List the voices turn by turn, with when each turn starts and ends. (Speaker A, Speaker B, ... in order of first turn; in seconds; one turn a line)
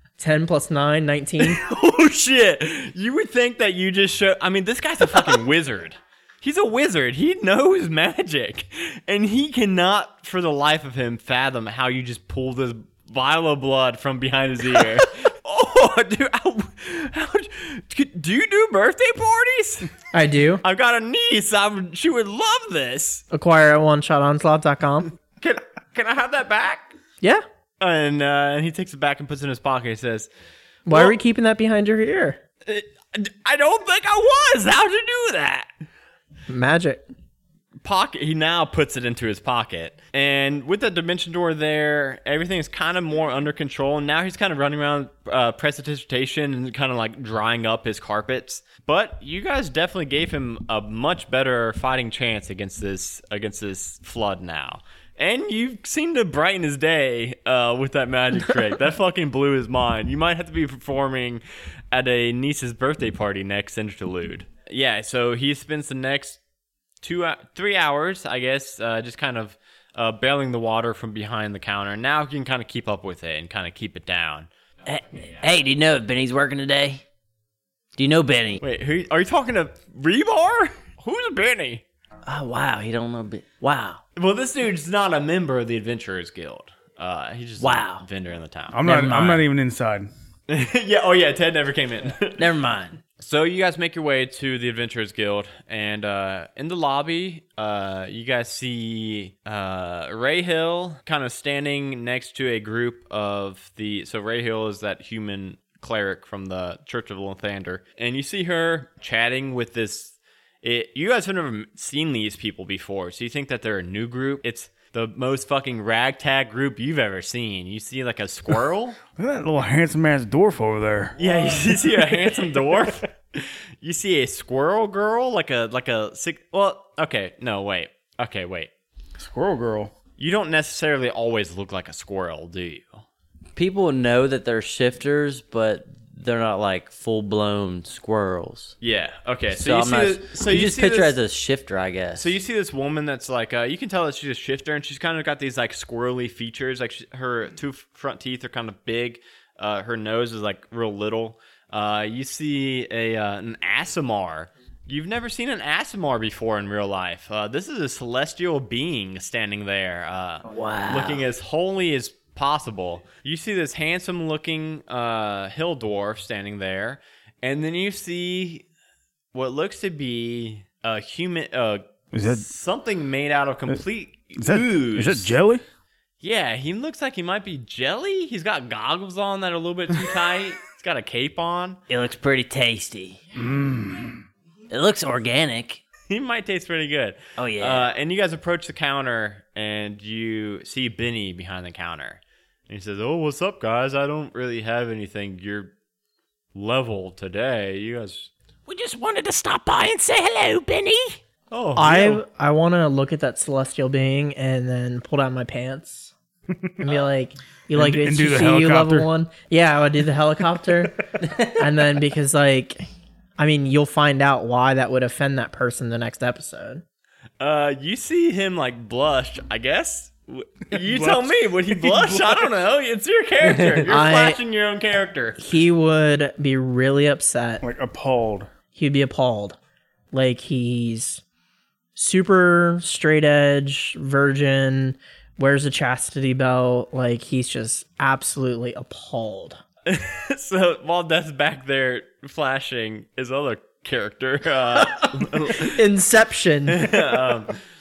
Speaker A: 0.2-1.6
Speaker B: 1.4-19.9
Speaker A: 20.1-20.6
Speaker B: 20.6-23.2
Speaker A: 23.3-25.1
Speaker B: 25.4-26.9
Speaker B: 27.8-30.3
Speaker A: 30.9-32.4
Speaker B: 30.9-31.2
Speaker B: 32.7-35.7
Speaker A: 36.5-37.0
Speaker B: 37.8-66.4
Speaker B: 67.0-74.5
Speaker C: 74.8-77.0
Speaker C: 78.0-78.6
Speaker B: 78.6-81.8
Speaker C: 82.2-84.0
Speaker B: 84.2-89.4
Speaker C: 87.6-88.1
Speaker D: 88.7-90.1
Speaker C: 88.8-89.4
Speaker B: 90.5-92.5
Speaker C: 92.4-93.0
Speaker B: 93.2-119.0
Speaker D: 119.2-121.2
Speaker B: 121.2-128.7
Speaker D: 129.2-129.9
Speaker B: 130.2-133.0
Speaker C: 133.6-138.8
Speaker B: 138.8-141.2
Speaker C: 139.5-142.3
Speaker B: 142.2-168.7
Speaker C: 160.4-161.2
Speaker B: 169.3-175.4
Speaker D: 172.1-172.5
Speaker D: 174.4-175.6
Speaker B: 176.2-181.8
Speaker C: 181.9-183.2
Speaker D: 183.3-184.2
Speaker C: 184.7-185.8
Speaker B: 186.1-195.7
Speaker C: 187.4-187.9
Speaker B: 196.6-198.3
Speaker E: 198.7-201.2
Speaker B: 201.5-202.2
Speaker A: 201.8-206.1
Speaker D: 206.6-206.8
Speaker A: 206.8-212.8
Speaker D: 207.8-209.1
Speaker A: 213.4-216.8
Speaker B: 217.4-225.4
Speaker D: 220.7-222.5
Speaker C: 223.4-223.8
Speaker A: 223.9-224.4
Speaker A: 225.4-227.6
Speaker D: 227.6-228.5
Speaker A: 228.8-229.6
Speaker A: 230.1-231.2
Speaker A: 232.0-239.6
Speaker B: 239.9-245.8
Speaker A: 245.6-247.0
Speaker B: 246.7-247.6